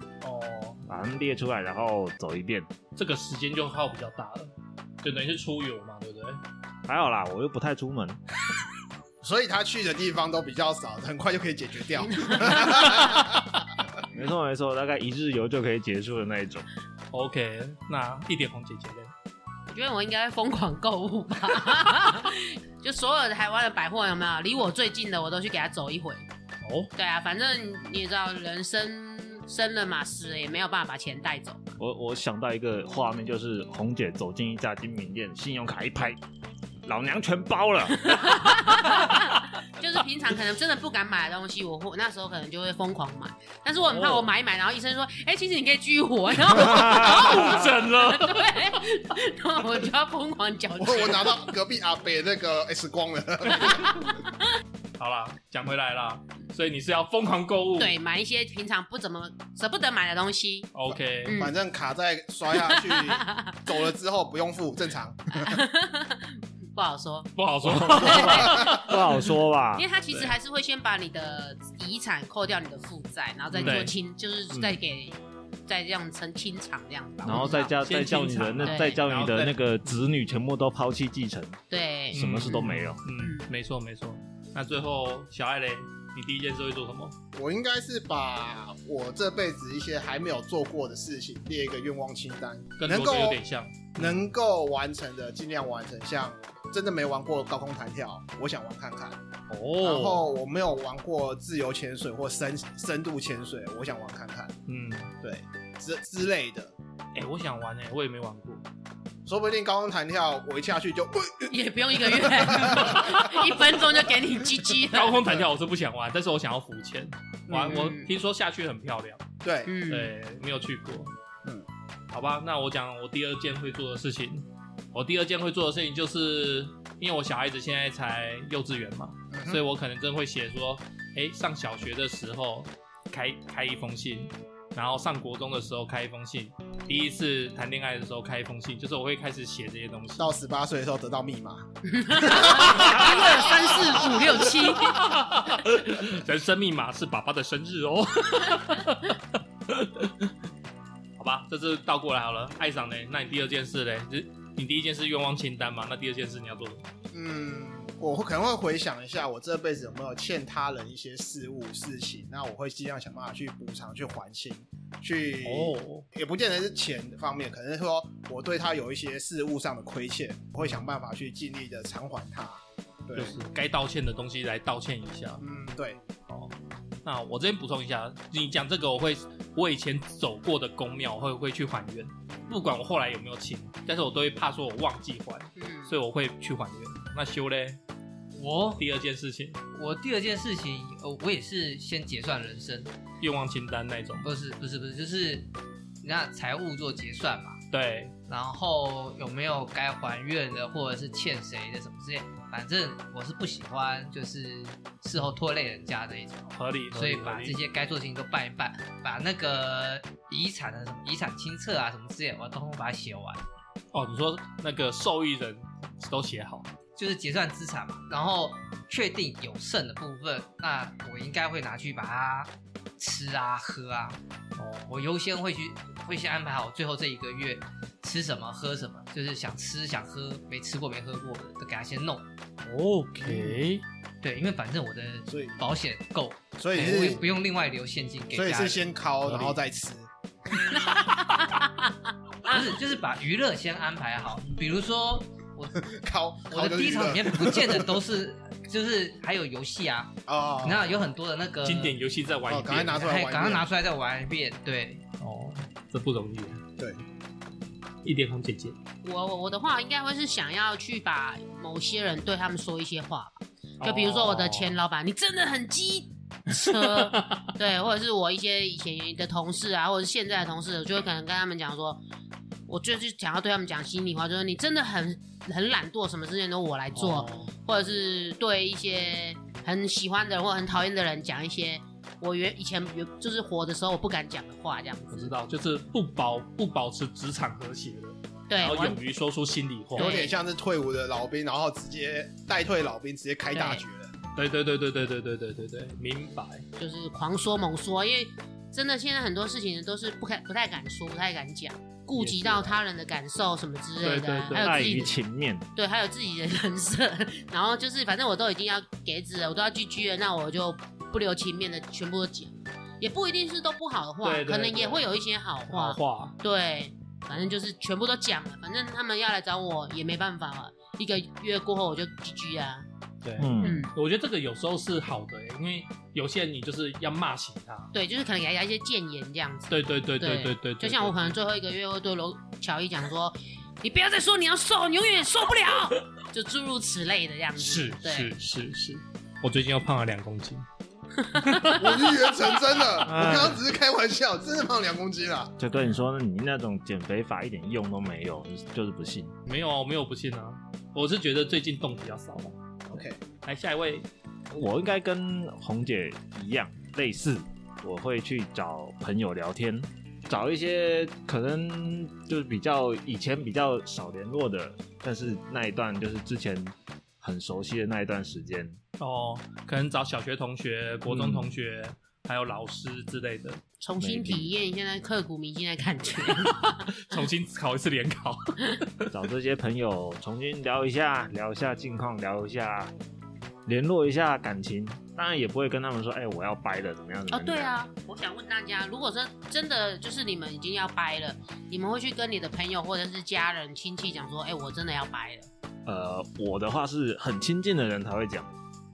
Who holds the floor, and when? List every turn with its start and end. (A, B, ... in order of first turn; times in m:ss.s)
0:00.2-0:00.8 A
0:00.9-0:02.7 B
0:03.0-0:06.4 A
0:06.9-0:08.2 B
0:09.2-0:13.6 C
0:14.1-0:16.7 B
0:17.1-0:19.1 A
0:19.7-0:26.2 D
0:26.6-0:26.9 A
0:27.0-0:31.6 D
0:31.8-0:36.2 B
0:36.8-0:38.3 B
0:38.0-0:51.5 D
0:43.8-0:44.3 A
0:46.8-0:48.7 A
0:50.8-0:54.0 C
0:53.6-0:54.0 D
0:55.0-0:58.0 A
0:57.8-1:00.7 D
1:00.7-1:01.4 A
1:01.2-1:01.6 D
1:01.3-1:05.6 C
1:02.5-1:03.7 D
1:05.4-1:17.8 D
1:07.4-1:08.8 A
1:07.9-1:09.9 B
1:13.6-1:13.9 A
1:14.5-1:14.8 B
1:17.2-1:21.6 B
1:17.8-1:20.0 A
1:18.6-1:19.0 D
1:21.7-1:23.5 D
1:22.1-1:27.2 A
1:22.1-1:23.0 B
1:27.3-1:33.4 C
1:32.8-1:34.2 A
1:34.0-1:39.2 C
1:39.5-1:40.3 A
1:39.8-1:44.5 C
1:44.7-1:45.1 A
1:45.2-1:46.7 C
1:47.1-1:48.6 A
1:49.2-1:53.2 C
1:51.5-1:55.2 D
1:52.7-1:53.5 A
1:54.9-1:59.2 A
1:57.5-1:57.8 C
1:57.6-1:58.1 D
1:59.4-1:59.8 C
1:59.6-2:00.1 D
1:59.9-2:01.1 A
2:02.1-2:20.3 A
2:09.3-2:09.6 C
2:20.2-2:24.0 C
2:21.9-2:25.1 D
2:22.5-2:30.3 A
2:31.2-2:36.8 A
2:37.1-2:53.4 C
2:45.4-2:46.0 A
2:53.1-2:55.4 A
2:55.4-2:56.0 C
2:57.0-3:07.8 A
3:05.6-3:06.0 D
3:08.4-3:08.8 E
3:08.8-3:09.6 A
3:09.7-3:12.9 E
3:13.2-3:14.3 A
3:14.2-3:15.5 E
3:16.0-3:17.6 E
3:17.7-3:18.1 A
3:18.3-3:33.4 E
3:26.6-3:27.6 A
3:33.9-3:36.7 A
3:37.0-3:44.2 E
3:44.6-3:44.9 A
3:44.9-3:52.2 E
3:52.6-3:53.8 A
3:53.2-3:53.5 C
3:54.2-3:59.6 E
3:55.3-3:55.6 C
3:56.6-3:57.3 C
3:58.3-4:00.1 C
4:00.8-4:01.9 D
4:02.4-4:05.8 E
4:05.8-4:08.0 C
4:06.5-4:12.0 E
4:10.3-4:10.9 C
4:11.6-4:13.1 A
4:12.5-4:13.7 C
4:13.0-4:15.0 E
4:15.2-4:16.6 A
4:18.0-4:18.8 A
4:19.0-4:32.0 D
4:23.8-4:24.8 A
4:26.5-4:27.5 A
4:32.7-4:45.3 D
4:36.9-4:37.5 A
4:45.1-4:50.2 A
4:48.5-4:49.0 D
4:50.0-4:50.4 D
4:50.0-4:54.1 C
4:53.5-4:53.8 D
4:54.4-4:56.6 A
4:56.8-5:05.1 D
5:02.1-5:02.8 A
5:04.0-5:05.1 A
5:04.5-5:05.6 B
5:05.8-5:22.9 D
5:14.2-5:15.1 A
5:15.7-5:16.4 A
5:23.2-5:27.9 A
5:23.4-5:23.9 B
5:23.6-5:23.9 D
5:27.9-5:38.3 D
5:29.7-5:31.4 A
5:37.6-5:40.6 A
5:41.2-5:41.9 D
5:41.4-5:41.8 A
5:41.8-5:45.6 C
5:43.0-5:43.6 B
5:45.6-5:49.3 B
5:49.5-5:52.6 A
5:52.9-5:53.2 C
5:53.4-5:54.1 A
5:54.5-6:08.8 B
6:09.0-6:13.6 A
6:11.1-6:11.5 B
6:13.8-6:16.9 D
6:14.0-6:14.5 B
6:16.4-6:19.1 A
6:19.1-6:22.9 B
6:23.6-6:27.8 B
6:27.3-6:35.5 D
6:35.9-6:38.5 B